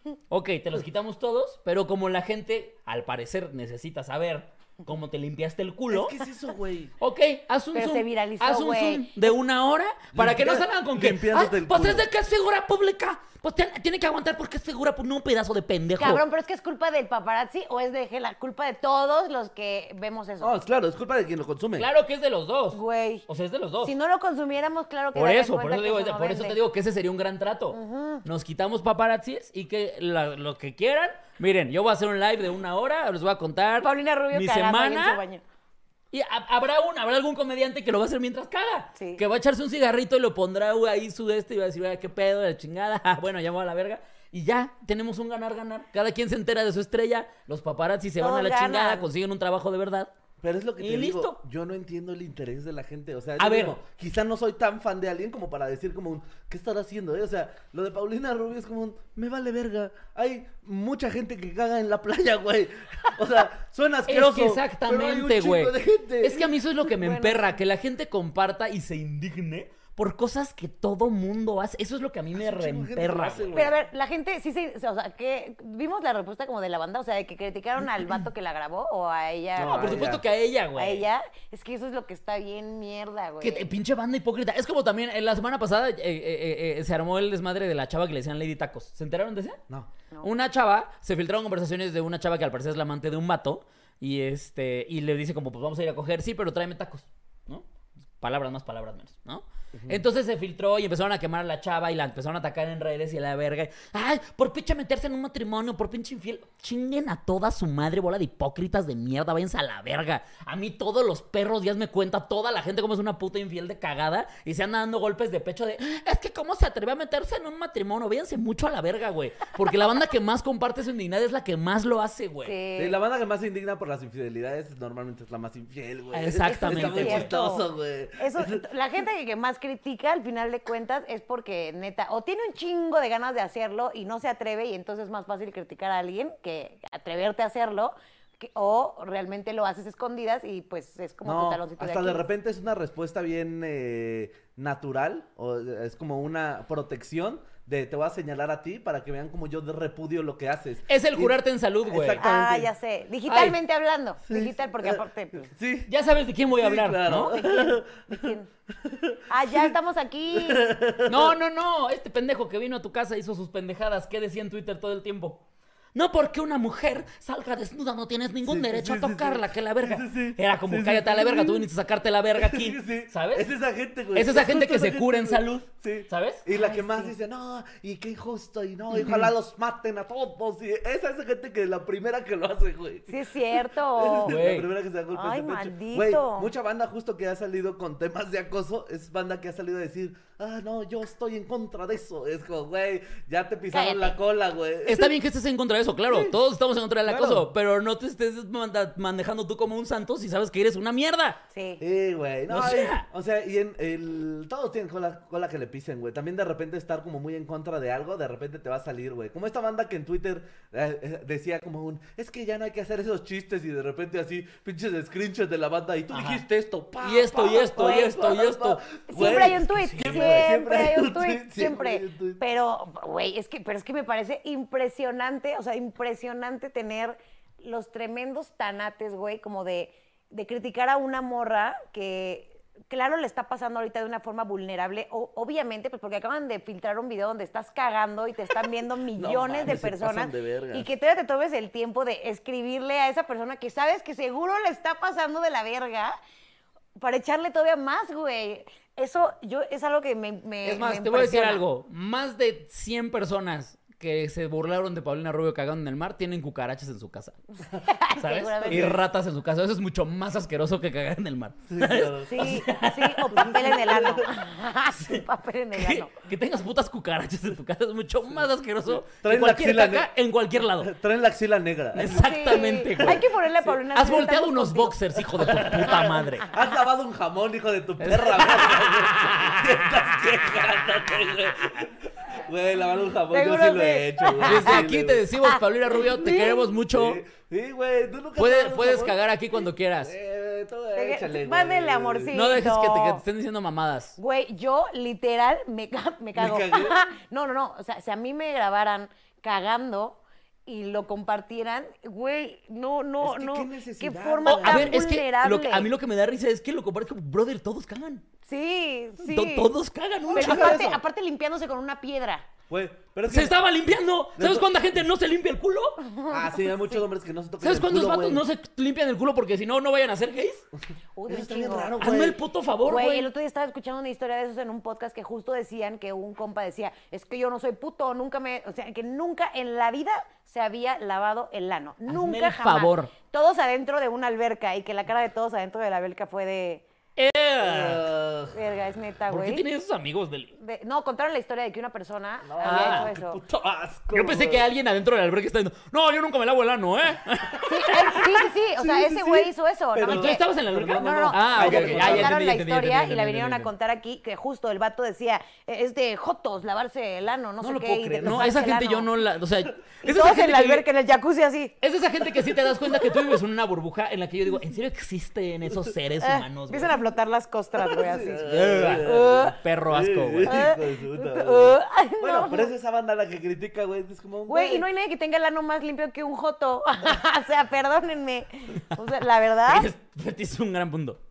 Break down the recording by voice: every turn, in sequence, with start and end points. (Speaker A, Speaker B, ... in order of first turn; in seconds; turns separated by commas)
Speaker A: 0.3-6.2, Speaker B: 5.9-6.9, Speaker A: 7.0-16.2, Speaker C: 7.7-9.3, Speaker B: 10.1-12.1, Speaker C: 16.0-20.5, Speaker B: 20.4-21.9, Speaker A: 21.8-23.9, Speaker C: 22.7-23.2, Speaker C: 23.8-26.6, Speaker A: 25.1-35.2, Speaker C: 27.7-28.2, Speaker C: 33.8-35.4, Speaker A: 36.1-50.1, Speaker C: 38.9-39.2, Speaker C: 48.2-49.1, Speaker B: 50.4-66.5, Speaker A: 50.8-51.4, Speaker A: 53.4-53.8, Speaker A: 64.1-73.7, Speaker C: 66.9-67.6, Speaker B: 72.4-73.8, Speaker C: 73.5-80.1, Speaker B: 79.5-80.2, Speaker A: 79.6-81.0, Speaker C: 80.8-83.7, Speaker A: 83.4-89.6, Speaker A: 90.2-97.6, Speaker A: 98.2-122.5, Speaker B: 99.7-100.0, Speaker C: 122.4-123.0, Speaker B: 122.8-128.7, Speaker A: 126.1-127.3, Speaker C: 126.5-127.6, Speaker C: 128.2-142.2, Speaker B: 141.2-152.7, Speaker A: 150.9-152.2, Speaker C: 152.2-155.5, Speaker A: 153.3-153.6, Speaker B: 154.3-155.9, Speaker A: 155.9-157.4, Speaker B: 156.5-159.7, Speaker C: 157.2-158.5, Speaker C: 159.3-160.7, Speaker B: 160.3-161.3, Speaker A: 161.1-165.4, Speaker A: 165.9-173.5, Speaker B: 168.5-171.7, Speaker B: 172.3-195.1, Speaker A: 174.1-176.4, Speaker C: 176.5-177.1, Speaker C: 183.1-184.3, Speaker A: 184.2-184.7, Speaker C: 185.1-186.5, Speaker C: 193.7-194.2, Speaker A: 194.8-201.4, Speaker B: 196.1-196.4, Speaker B: 197.1-197.5, Speaker C: 201.5-201.8, Speaker B: 201.8-222.4, Speaker A: 202.5-203.0, Speaker A: 216.1-216.4, Speaker A: 217.0-220.5, Speaker C: 219.1-246.2, Speaker B: 239.1-240.9, Speaker C: 247.0-251.6, Speaker A: 250.6-257.4, Speaker C: 257.7-259.0, Speaker A: 258.1-263.8, Speaker B: 258.7-259.0, Speaker B: 261.7-262.5, Speaker C: 262.3-266.1, Speaker B: 263.4-264.3, Speaker A: 265.7-270.9, Speaker B: 268.9-270.1, Speaker B: 270.8-273.2, Speaker A: 271.9-276.5, Speaker C: 272.1-275.0, Speaker B: 275.3-285.2, Speaker C: 275.9-276.1, Speaker A: 278.0-280.0, Speaker C: 283.3-284.8, Speaker A: 284.4-287.2, Speaker C: 285.4-286.7, Speaker B: 286.9-289.2, Speaker A: 288.4-290.1, Speaker B: 290.0-292.3, Speaker C: 290.9-293.2, Speaker A: 292.3-294.2, Speaker C: 294.2-305.9, Speaker B: 296.4-296.9, Speaker B: 303.2-305.0, Speaker A: 304.4-308.2, Speaker C: 308.4-309.7, Speaker A: 309.2-310.8, Speaker B: 310.3-311.0, Speaker C: 310.3-312.4, Speaker B: 312.7-313.6, Speaker A: 313.3-316.0, Speaker B: 314.4-314.7, Speaker C: 316.0-317.0, Speaker B: 316.3-318.4, Speaker A: 317.6-320.6, Speaker C: 321.2-321.9, Speaker B: 321.3-322.4, Speaker A: 322.0-323.3, Speaker C: 322.9-336.8, Speaker A: 332.1-333.1, Speaker A: 337.1-338.1, Speaker B: 337.6-338.6, Speaker C: 338.5-339.6, Speaker A: 339.3-340.5, Speaker C: 340.6-343.4, Speaker B: 342.4-344.7, Speaker A: 342.6-343.1, Speaker A: 344.1-348.3, Speaker C: 347.6-359.1, Speaker B: 348.8-352.4, Speaker A: 350.0-353.7, Speaker A: 357.6-360.8, Speaker C: 360.0-361.7, Speaker A: 361.8-367.0, Speaker C: 366.2-369.6, Speaker B: 367.8-374.9, Speaker A: 368.4-370.6, Speaker C: 370.4-372.7, Speaker C: 374.5-379.9, Speaker A: 379.7-381.2